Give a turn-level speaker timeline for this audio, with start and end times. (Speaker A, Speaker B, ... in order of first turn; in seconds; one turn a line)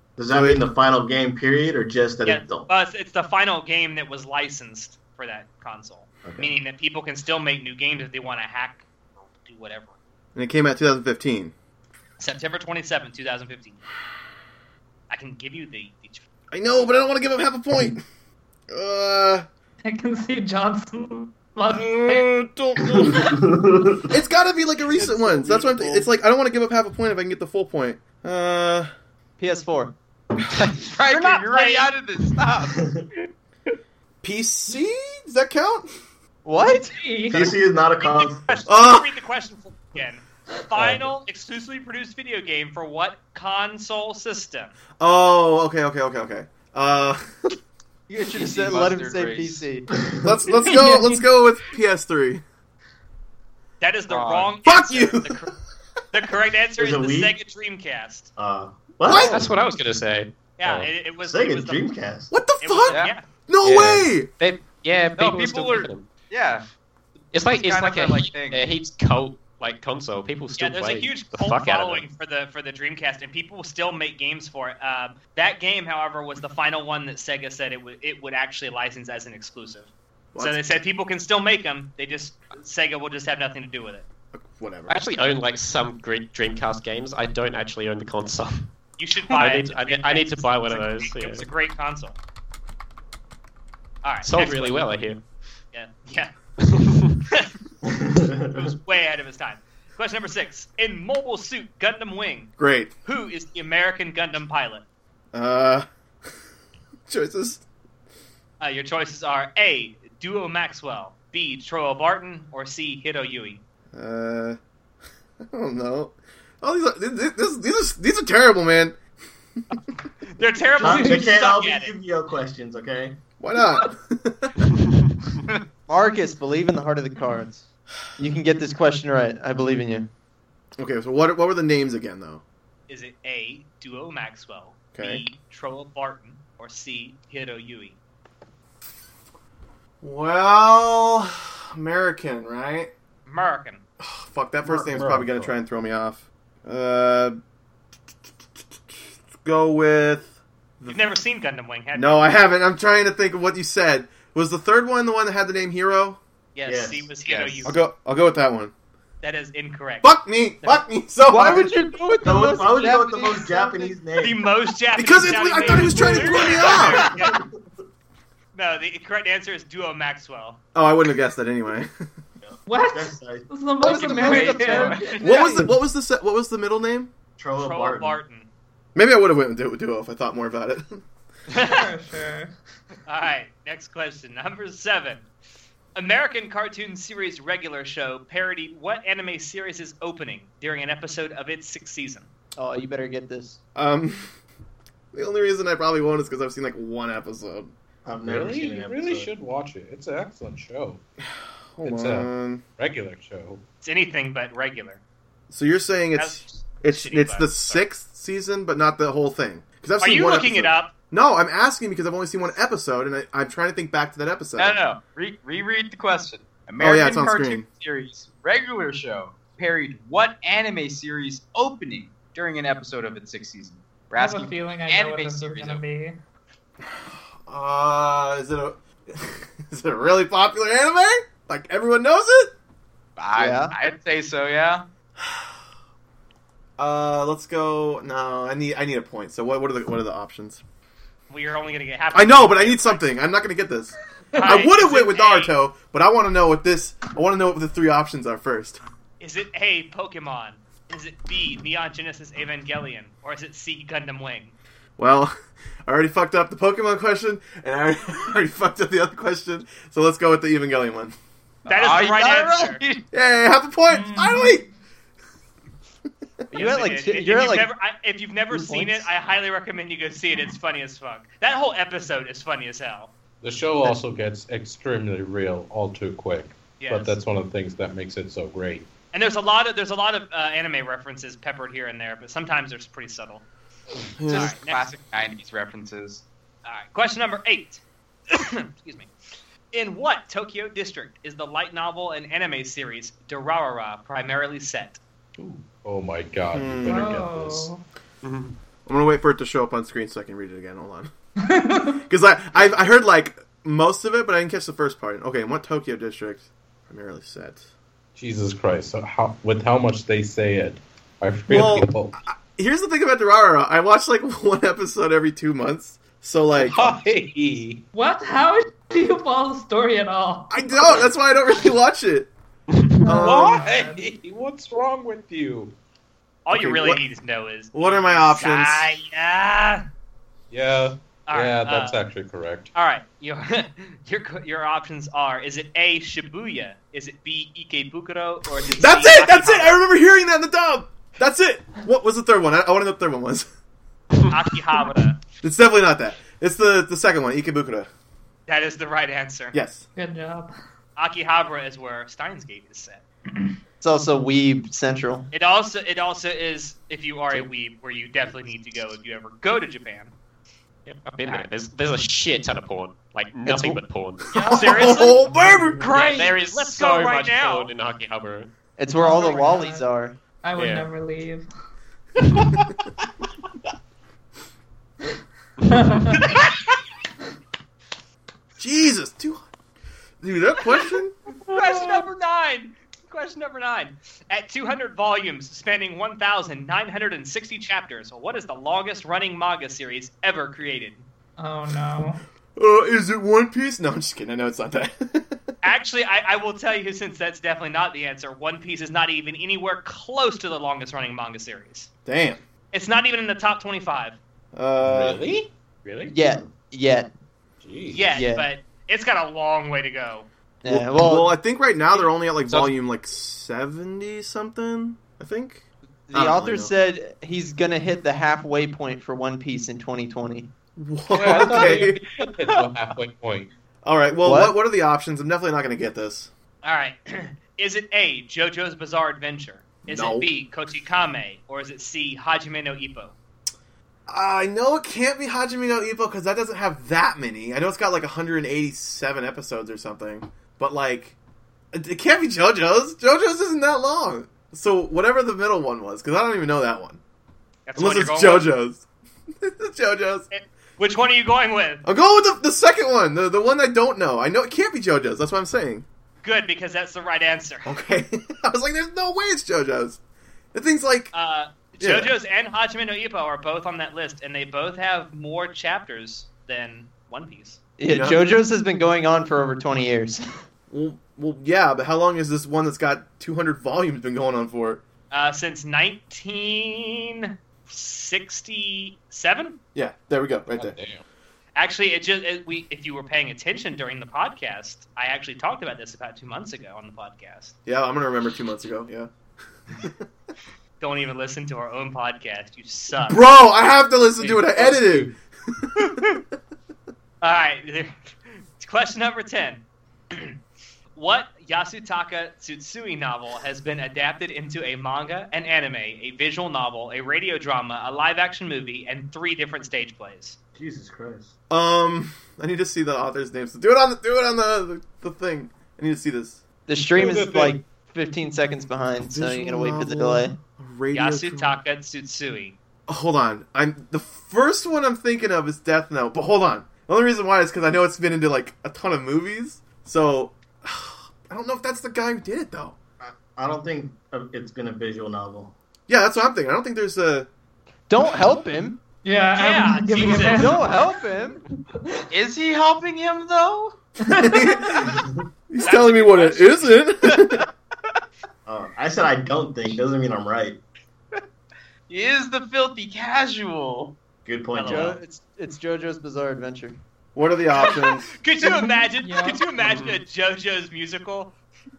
Speaker A: 0.2-2.7
Speaker B: 0.3-0.6
Speaker C: 2.2-9.9
Speaker A: 6.2-6.5
Speaker B: 10.3-11.5
Speaker C: 12.2-13.8
Speaker C: 15.1-16.2
Speaker B: 16.5-18.0
Speaker B: 18.7-19.4
Speaker D: 19.8-22.3
Speaker B: 21.7-23.2
Speaker A: 22.8-24.1
Speaker B: 24.1-28.9
Speaker E: 25.0-26.0
Speaker E: 29.4-29.9
Speaker F: 30.5-32.8
Speaker C: 31.1-31.9
Speaker A: 32.7-33.0
Speaker B: 34.2-35.9
Speaker E: 36.4-36.9
Speaker D: 36.6-37.6
Speaker A: 37.3-38.6
Speaker C: 38.0-44.7
Speaker B: 38.6-39.1
Speaker B: 45.0-47.2
Speaker E: 48.1-49.9
Speaker F: 48.3-49.7
Speaker A: 49.9-50.4
Speaker B: 50.2-52.4
Speaker D: 50.5-51.2
Speaker C: 53.8-55.5
Speaker F: 54.1-54.5
Speaker B: 54.6-55.5
Speaker C: 56.1-58.3
Speaker A: 56.8-57.3
Speaker A: 58.4-59.4
Speaker B: 59.0-59.5
Speaker G: 59.2-60.9
Speaker C: 60.6-61.8
Speaker A: 61.2-62.3
Speaker B: 62.3-64.3
Speaker C: 62.6-63.2
Speaker F: 62.9-63.2
Speaker G: 63.6-66.1
Speaker F: 65.2-66.6
Speaker G: 67.3-72.0
Speaker F: 67.5-68.6
Speaker C: 70.5-84.0
Speaker B: 80.3-80.6
Speaker B: 84.3-85.0
Speaker G: 84.9-88.7
Speaker C: 89.0-92.2
Speaker G: 89.3-91.5
Speaker C: 94.0-94.9
Speaker G: 94.2-95.2
Speaker C: 95.7-96.3
Speaker G: 96.7-97.2
Speaker A: 97.8-98.5
Speaker C: 98.5-104.8
Speaker B: 102.6-102.9
Speaker B: 105.3-105.8
Speaker B: 107.1-107.6
Speaker C: 108.6-113.6
Speaker B: 113.9-114.6
Speaker B: 115.4-119.0
Speaker C: 120.3-121.9
Speaker A: 120.8-123.2
Speaker D: 120.8-121.2
Speaker B: 123.4-124.5
Speaker E: 125.9-130.1
Speaker B: 130.8-132.4
Speaker C: 132.9-137.9
Speaker B: 134.9-135.2
Speaker B: 140.0-142.9
Speaker C: 143.2-143.8
Speaker B: 144.0-147.4
Speaker A: 144.7-145.5
Speaker B: 149.4-151.1
Speaker C: 150.9-152.2
Speaker B: 151.9-156.2
Speaker C: 156.5-157.8
Speaker A: 156.7-157.1
Speaker F: 157.2-157.7
Speaker B: 157.6-158.7
Speaker C: 159.2-160.8
Speaker B: 160.0-161.8
Speaker E: 161.3-163.9
Speaker A: 162.2-164.5
Speaker C: 164.2-167.4
Speaker B: 164.9-167.2
Speaker A: 166.6-167.5
Speaker C: 168.5-170.6
Speaker B: 170.7-171.9
Speaker A: 172.4-173.5
Speaker D: 172.7-175.2
Speaker E: 173.8-175.7
Speaker C: 173.9-175.2
Speaker B: 175.2-177.1
Speaker A: 177.4-178.2
Speaker C: 177.6-178.5
Speaker B: 178.9-181.0
Speaker C: 181.5-181.8
Speaker D: 181.6-182.5
Speaker C: 183.1-185.3
Speaker C: 185.9-192.3
Speaker E: 192.5-193.6
Speaker B: 193.7-194.3
Speaker B: 195.1-197.7
Speaker A: 198.0-199.3
Speaker H: 198.2-201.0
Speaker B: 201.8-202.6
Speaker H: 201.8-203.6
Speaker C: 203.8-205.0
Speaker B: 205.5-214.8
Speaker C: 206.1-207.8
Speaker C: 210.0-210.9
Speaker F: 214.6-225.8
Speaker B: 216.8-217.7
Speaker D: 224.1-226.2
Speaker B: 227.4-232.5
Speaker F: 233.2-234.8
Speaker E: 233.3-233.7
Speaker B: 236.8-240.6
Speaker C: 241.3-243.0
Speaker B: 242.1-248.8
Speaker C: 244.3-245.6
Speaker C: 249.2-254.5
Speaker B: 255.0-261.1
Speaker C: 261.7-262.8
Speaker F: 261.7-263.1
Speaker B: 263.1-264.7
Speaker D: 263.9-264.6
Speaker E: 266.5-267.7
Speaker C: 266.5-273.1
Speaker E: 268.5-269.1
Speaker H: 273.4-278.9
Speaker C: 276.8-277.2
Speaker C: 279.1-283.4
Speaker B: 284.1-284.6
Speaker F: 284.3-286.2
Speaker C: 284.3-284.9
Speaker C: 286.6-289.1
Speaker C: 289.7-295.0
Speaker H: 295.4-297.7
Speaker B: 296.5-297.2
Speaker D: 296.9-297.8
Speaker G: 298.2-298.5
Speaker B: 298.9-301.1
Speaker D: 301.4-302.0
Speaker B: 302.1-307.6
Speaker H: 308.1-312.1
Speaker B: 311.5-317.0
Speaker H: 316.6-317.8
Speaker D: 317.9-320.9
Speaker B: 320.5-322.3
Speaker H: 322.8-325.7
Speaker D: 323.0-324.1
Speaker B: 323.1-323.6
Speaker C: 326.4-329.8
Speaker B: 326.5-327.0
Speaker B: 327.7-328.9
Speaker H: 330.5-332.7
Speaker C: 331.3-332.0
Speaker C: 332.7-339.8
Speaker B: 338.7-343.5
Speaker C: 344.2-345.2
Speaker B: 345.4-347.9
Speaker C: 348.5-349.5
Speaker B: 349.5-349.8
Speaker D: 349.9-350.5
Speaker C: 351.0-353.0
Speaker E: 353.8-355.3
Speaker C: 355.3-360.1
Speaker G: 360.9-364.9
Speaker B: 363.5-363.7
Speaker D: 364.3-366.2
Speaker B: 364.4-365.9
Speaker C: 364.6-365.1
Speaker C: 365.8-367.7
Speaker G: 365.9-368.5
Speaker E: 368.8-370.2
Speaker D: 368.9-369.9
Speaker D: 370.4-371.5
Speaker G: 370.5-370.9
Speaker D: 375.7-376.4
Speaker B: 378.6-379.5
Speaker B: 380.2-381.1
Speaker D: 381.5-382.0
Speaker C: 381.5-391.0
Speaker D: 391.4-392.2
Speaker B: 392.6-395.4
Speaker C: 395.6-401.9
Speaker B: 402.1-402.4
Speaker C: 402.7-404.2
Speaker B: 404.5-405.2
Speaker H: 404.8-406.1
Speaker E: 406.0-407.1
Speaker H: 407.6-408.2
Speaker C: 407.9-410.3
Speaker E: 408.1-408.4
Speaker E: 410.6-411.3
Speaker B: 410.7-416.7
Speaker H: 412.4-412.8
Speaker E: 416.1-420.5
Speaker B: 420.8-422.0
Speaker H: 421.1-423.5
Speaker E: 421.3-421.7
Speaker B: 423.8-426.3
Speaker E: 424.2-424.5
Speaker C: 426.6-433.1
Speaker B: 429.8-430.3
Speaker B: 434.1-441.1
Speaker B: 441.7-447.0
Speaker C: 447.7-448.5
Speaker B: 447.8-448.8
Speaker B: 449.4-450.3
Speaker C: 450.3-451.8
Speaker B: 451.8-455.9
Speaker C: 456.2-457.7
Speaker B: 457.6-460.0
Speaker B: 460.5-461.1
Speaker C: 461.1-467.6
Speaker B: 461.8-462.1
Speaker E: 467.8-470.2
Speaker B: 467.9-468.2
Speaker B: 470.7-474.8
Speaker C: 475.1-479.6
Speaker B: 479.7-480.8
Speaker H: 480.5-481.0
Speaker C: 481.6-487.5
Speaker B: 487.6-489.1
Speaker C: 490.8-493.2
Speaker B: 493.0-495.1
Speaker H: 494.2-495.1
Speaker C: 497.2-499.6
Speaker C: 500.9-510.4
Speaker A: 510.6-511.3
Speaker B: 511.5-516.4
Speaker E: 516.7-520.3
Speaker H: 517.0-517.6
Speaker B: 519.0-521.6
Speaker C: 520.9-522.5
Speaker B: 522.9-532.8
Speaker A: 533.0-535.5
Speaker B: 535.9-537.3
Speaker E: 537.9-538.8
Speaker D: 539.0-540.8
Speaker C: 539.4-540.6
Speaker E: 540.2-541.4
Speaker F: 542.1-543.8
Speaker D: 544.0-544.7
Speaker B: 544.1-545.0
Speaker A: 544.8-545.2
Speaker B: 545.5-547.4
Speaker C: 545.6-546.7
Speaker F: 547.0-547.4
Speaker A: 548.5-550.6
Speaker F: 551.9-553.9
Speaker A: 554.2-555.0
Speaker C: 554.5-555.0
Speaker E: 554.6-556.8
Speaker B: 557.1-558.1
Speaker C: 557.5-561.3
Speaker D: 558.4-559.4
Speaker G: 559.6-559.9